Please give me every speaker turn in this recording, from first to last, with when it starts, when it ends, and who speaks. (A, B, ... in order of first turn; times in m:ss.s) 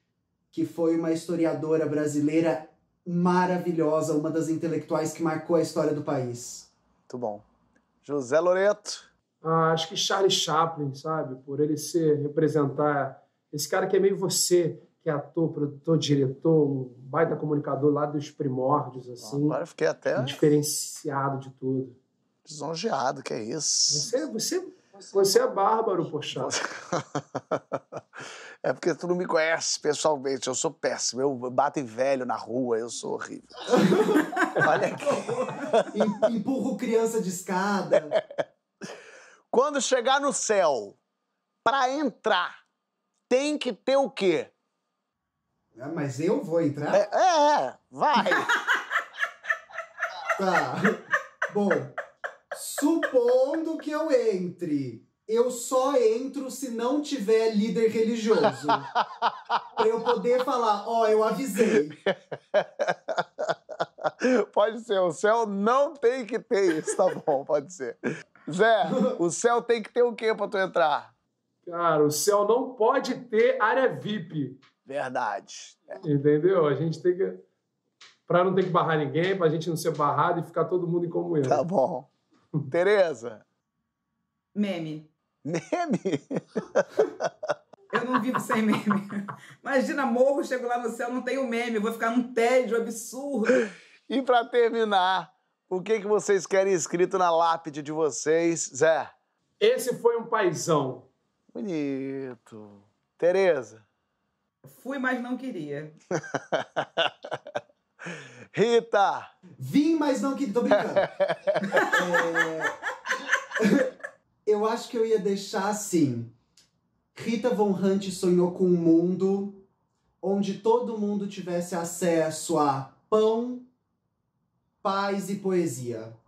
0:00.5-0:06.7 A
0:07.1-0:07.4 B
0:08.0-0:09.1 B
0:09.4-0:19.6 C
0:19.2-0:20.5 B
0:20.1-0:22.0 C
0:22.4-0:24.1 B
0:23.9-0:26.5 C
0:26.3-0:28.0 B
0:28.6-0:33.8 B
0:33.9-0:34.2 A
0:34.6-0:35.9 B
0:35.2-0:38.1 A
0:38.1-0:38.4 B
0:39.5-0:41.0 B
0:41.6-0:42.6 B
0:43.3-0:44.5 B
0:45.8-0:47.0 A
0:46.9-0:48.5 B
0:48.2-0:48.8 D
0:50.4-0:52.0 A
0:52.5-0:58.9 A
0:59.2-0:59.6 B
0:59.8-1:02.0 A
1:02.0-1:11.1 B
1:08.8-1:09.2 A
1:11.6-1:14.6 C
1:14.8-1:16.0 B
1:16.0-1:17.4 C
1:18.3-1:21.6 C
1:21.4-1:22.1 B
1:22.7-1:23.4 B
1:24.5-1:25.1 D
1:25.4-1:27.3 B
1:27.9-1:33.6 D
1:34.1-1:39.1 B
1:39.6-1:41.1 C
1:41.5-1:43.8 B
1:44.6-1:46.0 D
1:46.3-1:47.1 B
1:48.5-1:49.3 B
1:49.6-1:51.1 A
1:50.8-1:51.8 B
1:51.7-1:52.4 D
1:51.9-1:52.7 A
1:53.6-1:53.9 A
1:54.4-1:56.3 A
1:57.1-1:59.6 A
2:00.2-2:03.7 A
2:04.8-2:06.1 A